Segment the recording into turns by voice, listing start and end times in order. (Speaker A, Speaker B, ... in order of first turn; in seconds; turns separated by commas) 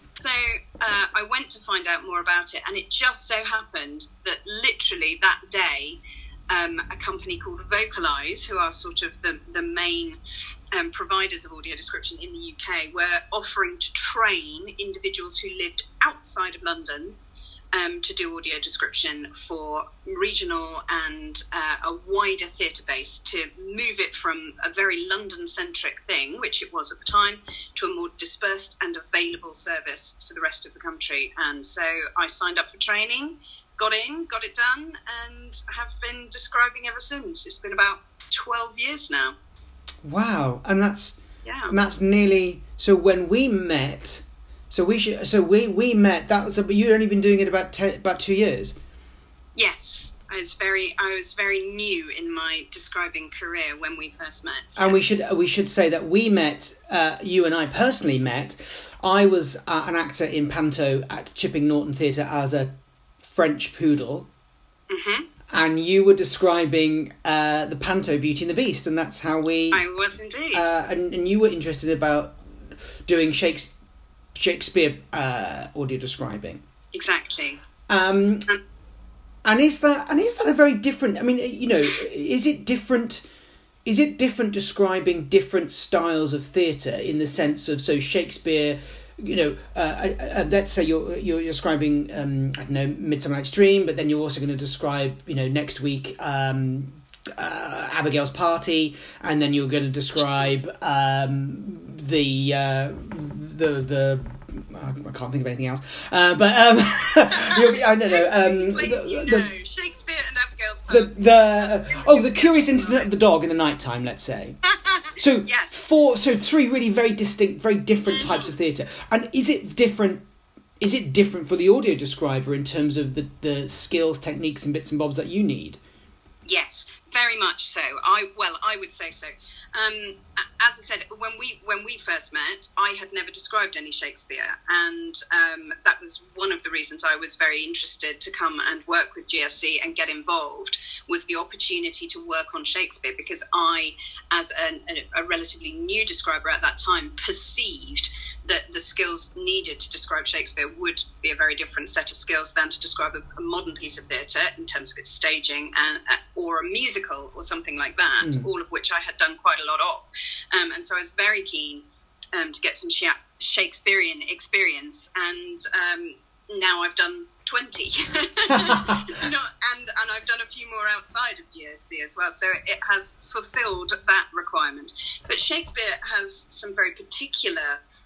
Speaker A: 0.2-10.2, Speaker A: 10.7-17.2, Speaker A: 17.7-39.4, Speaker B: 40.0-48.8, Speaker A: 41.4-41.8, Speaker A: 49.6-55.1, Speaker B: 54.8-64.3, Speaker A: 64.9-65.3, Speaker B: 65.5-69.8, Speaker A: 69.7-70.7, Speaker B: 70.5-72.4, Speaker B: 73.1-73.7, Speaker B: 74.4-76.6, Speaker A: 76.9-77.6, Speaker B: 77.9-78.5, Speaker B: 79.5-83.3, Speaker B: 83.8-109.5, Speaker A: 107.4-113.1, Speaker B: 110.9-114.6, Speaker A: 114.8-115.8, Speaker B: 115.2-120.2, Speaker A: 118.1-118.5, Speaker B: 120.8-125.8, Speaker A: 126.5-177.8, Speaker B: 158.2-158.5, Speaker B: 168.6-169.0